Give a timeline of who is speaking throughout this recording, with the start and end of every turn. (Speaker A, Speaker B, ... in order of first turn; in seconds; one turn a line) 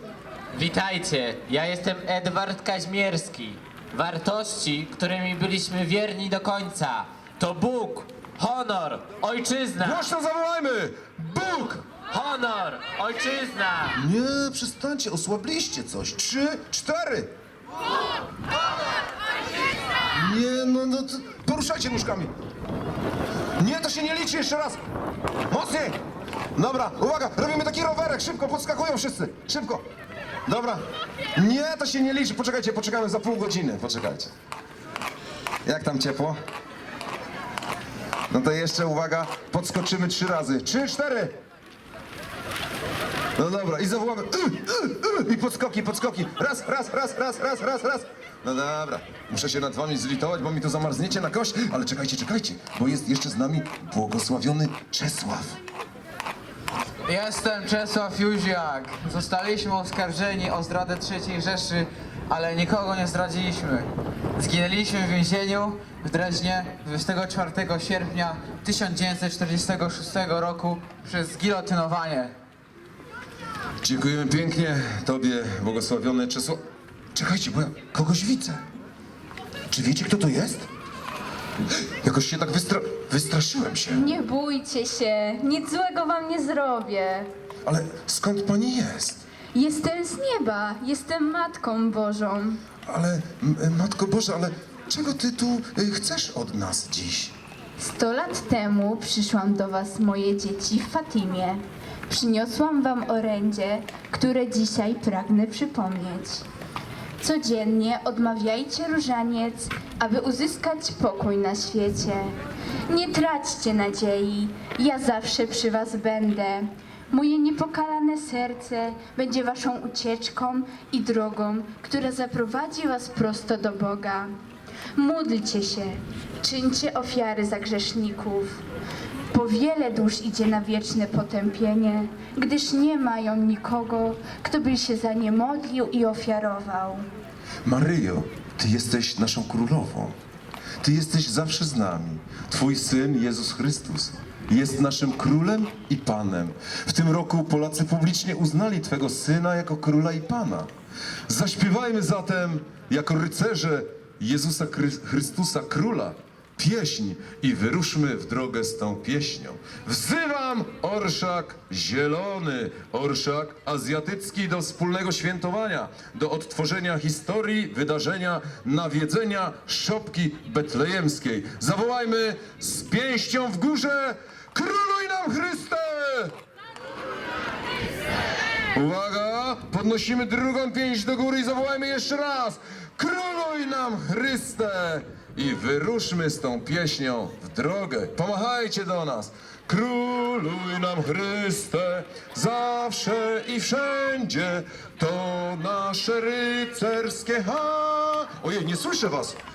Speaker A: 0.5-10.1
Speaker B: 9.8-11.9
Speaker A: 11.9-14.0
Speaker B: 13.9-17.3
Speaker B: 20.1-22.3
Speaker B: 23.6-24.8
Speaker B: 25.5-26.0
Speaker B: 26.6-29.8
Speaker B: 30.5-30.8
Speaker B: 31.4-34.3
Speaker B: 35.6-36.4
Speaker B: 38.3-41.3
Speaker B: 43.4-55.6
Speaker C: 57.1-72.3
Speaker B: 73.8-76.6
Speaker B: 77.1-78.6
Speaker B: 79.7-80.7
Speaker B: 82.0-84.1
Speaker D: 83.9-87.3
Speaker B: 87.7-89.2
Speaker D: 89.5-92.6
Speaker B: 92.8-97.3
Speaker D: 97.8-106.5
Speaker D: 107.2-112.3
Speaker D: 112.9-124.3
Speaker D: 125.0-128.6
Speaker D: 129.3-137.1
Speaker B: 137.6-140.1
Speaker B: 140.8-150.7
Speaker B: 151.3-176.3
Speaker B: 178.7-199.4